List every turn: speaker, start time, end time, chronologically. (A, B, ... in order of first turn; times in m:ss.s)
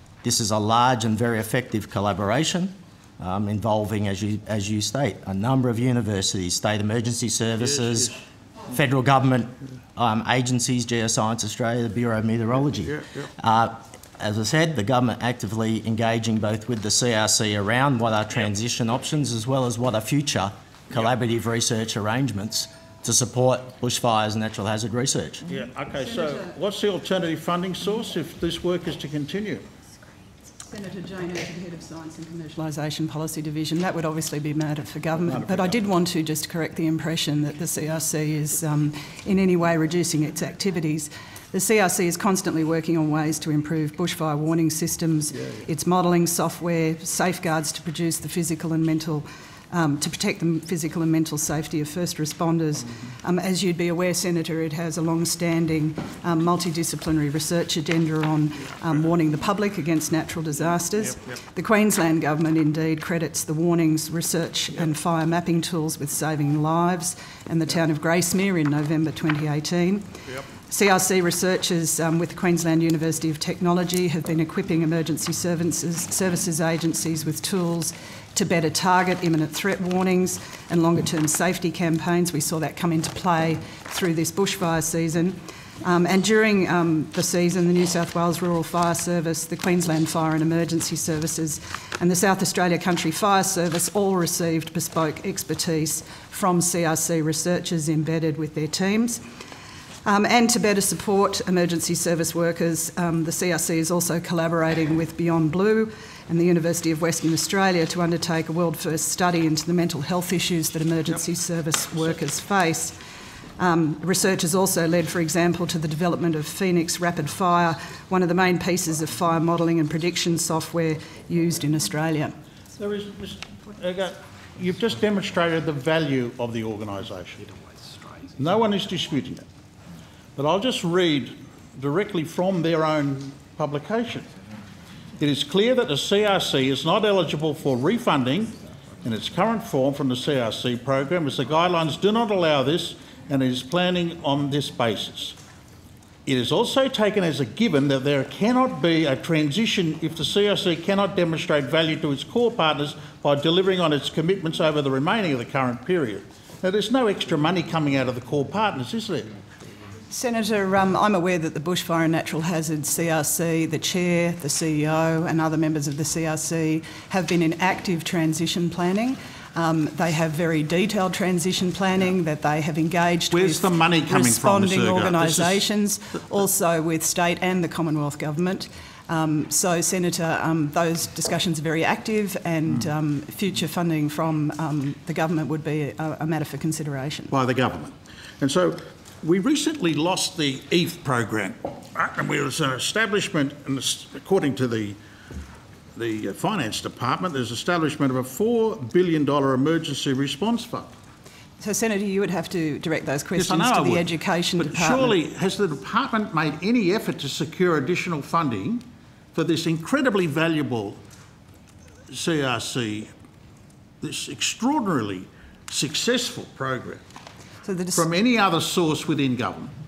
0:00.2-0:25.4 A
0:07.8-0:08.2 B
0:25.4-0:29.6 B
0:26.0-0:26.4 C
0:30.6-1:39.2 C
0:35.3-0:35.8 B
1:40.0-1:53.0 C
1:53.6-2:02.3 C
2:02.7-2:07.5 B
2:08.3-2:09.4 B
2:10.4-2:14.3 B
2:15.2-2:25.4 B
2:26.2-2:39.3 B
2:40.1-3:07.3 C
2:53.3-2:55.7 B
3:07.3-3:15.0 B
3:15.9-3:20.9 B
3:21.6-3:25.2 C
3:23.4-3:31.0 B
3:32.1-3:33.1 B
3:34.0-3:37.0 B
3:37.6-3:38.1 C
3:37.9-3:39.7 B